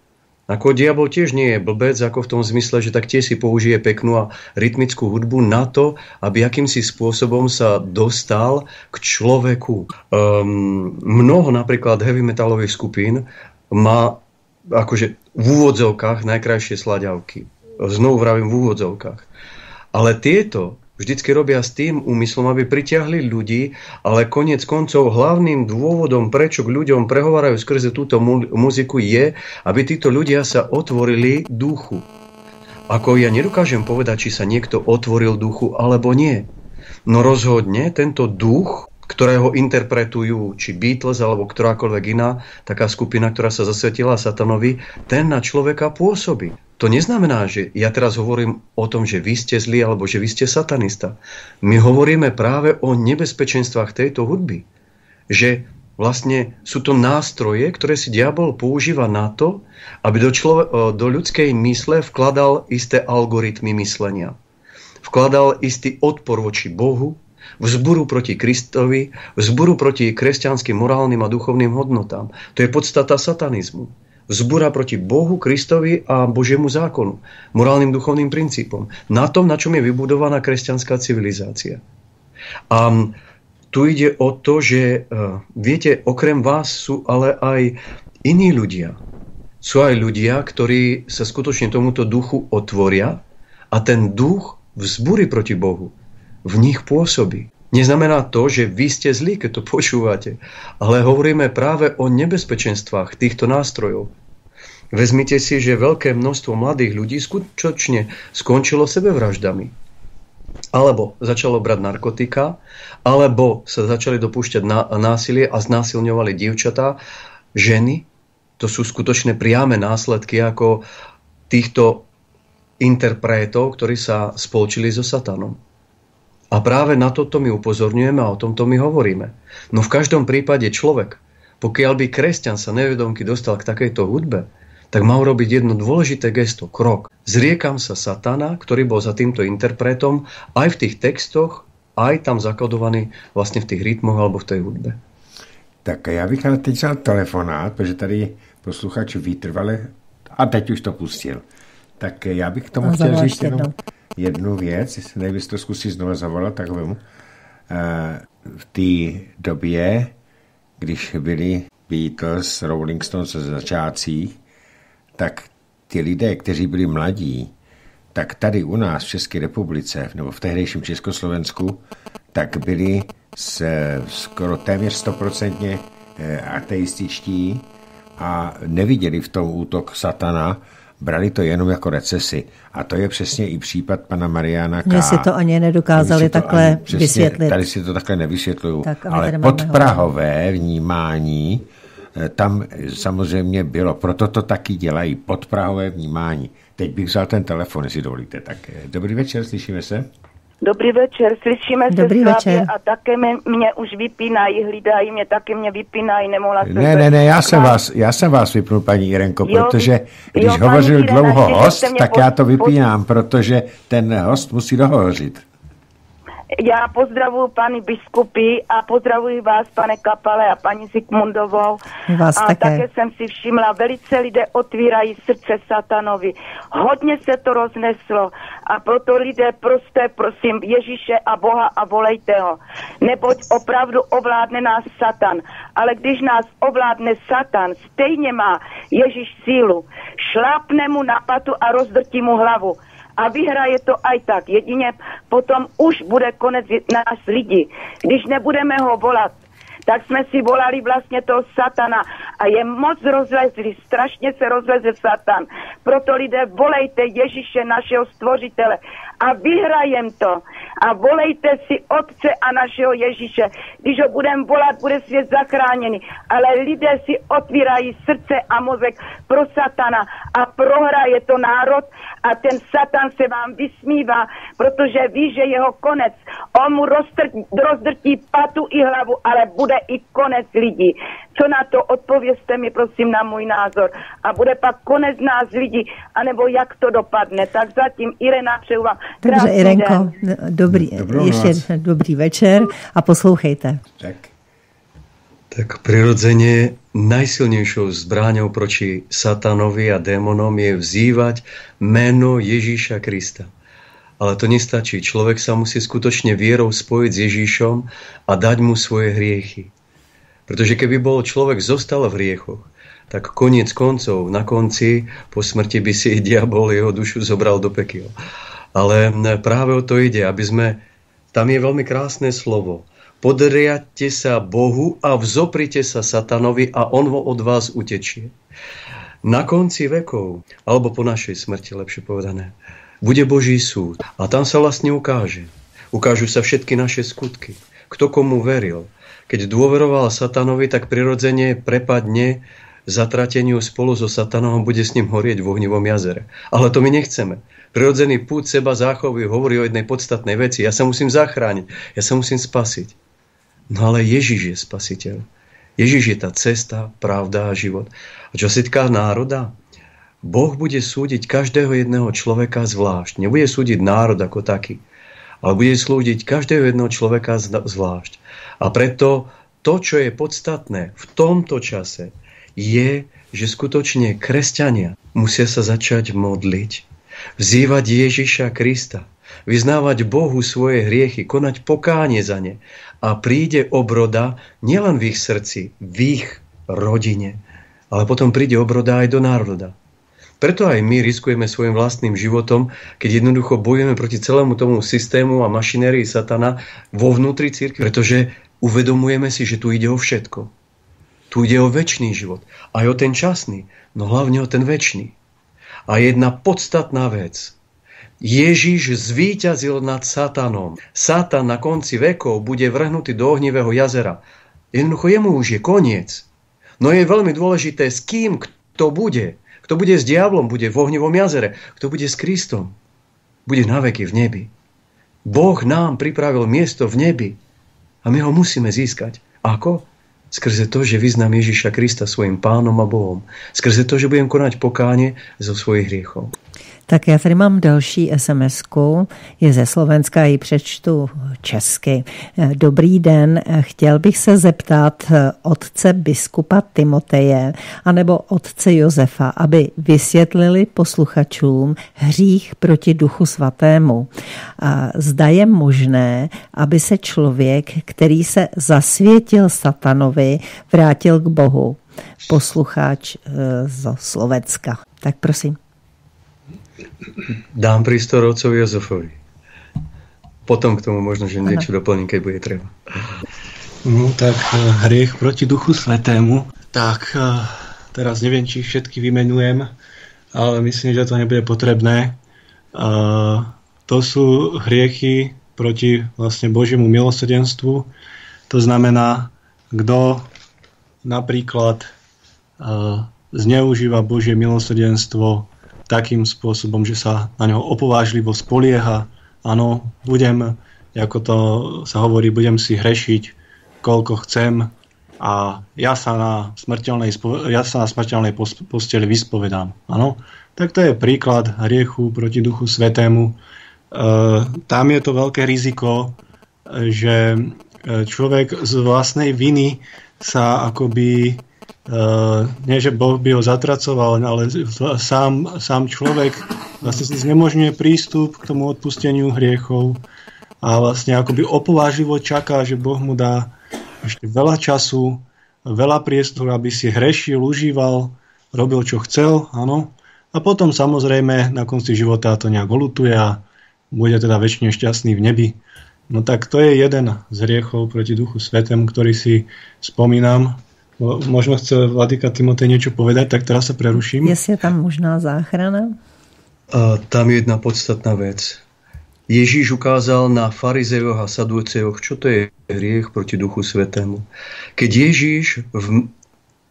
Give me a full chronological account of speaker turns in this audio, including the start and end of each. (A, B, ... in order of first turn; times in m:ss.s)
0:00.5-0:19.3 A
0:19.9-0:32.1 A
0:32.9-0:36.5 A
0:37.1-0:54.6 A
0:55.3-1:04.4 A
1:05.0-1:21.8 A
1:22.7-1:23.2 A
1:23.7-1:29.0 A
1:29.6-1:33.2 A
1:33.7-1:44.1 A
1:44.9-1:49.7 A
1:50.7-1:57.0 A
1:57.5-1:58.1 A
1:58.6-2:00.8 A
2:01.5-2:02.1 A
2:02.8-2:05.6 A
2:06.5-2:25.0 A
2:25.8-2:31.4 B
2:32.0-2:37.0 B
2:32.8-2:33.7 C
2:37.7-2:40.1 B
2:40.8-2:44.4 B
2:45.2-2:47.5 B
2:48.1-2:57.7 B
2:58.2-3:05.3 B
3:04.8-3:07.6 C
3:06.0-3:20.1 B
3:08.8-3:10.1 C
3:20.6-3:27.8 D
3:21.9-3:22.7 C
3:26.6-3:35.4 B
3:29.4-3:32.7 D
3:36.6-3:41.8 D
3:42.1-3:42.8 C
3:42.3-4:50.1 D
4:49.2-4:53.8 C
4:50.7-4:51.7 B
4:54.0-4:54.3 B
4:55.5-5:03.5 A
5:04.2-5:09.7 A
5:10.5-5:18.1 A
5:18.7-5:20.8 A
5:21.3-5:28.3 A
5:29.2-5:53.0 A
5:53.7-5:55.2 A
5:55.8-5:59.5 A
6:00.2-6:04.8 A
6:05.4-6:29.7 A
6:30.4-6:40.5 A
6:41.3-6:45.1 A
6:45.9-6:47.6 A
6:48.2-6:54.2 A
6:54.7-6:56.3 A
6:56.8-7:02.7 A
7:03.5-7:04.5 A
7:05.2-7:07.4 A
7:08.0-7:16.3 A
7:16.9-7:45.6 C
7:47.5-7:49.2 A
7:50.5-7:52.7 A
7:53.8-7:59.7 E
8:00.3-8:02.2 E
8:02.7-8:07.9 E
8:08.5-8:10.2 E
8:11.0-8:11.9 E
8:12.6-8:33.4 E
8:33.9-8:50.0 E
8:50.6-9:14.4 E
9:14.0-9:15.9 C
9:16.7-9:18.6 A
9:19.3-9:26.1 A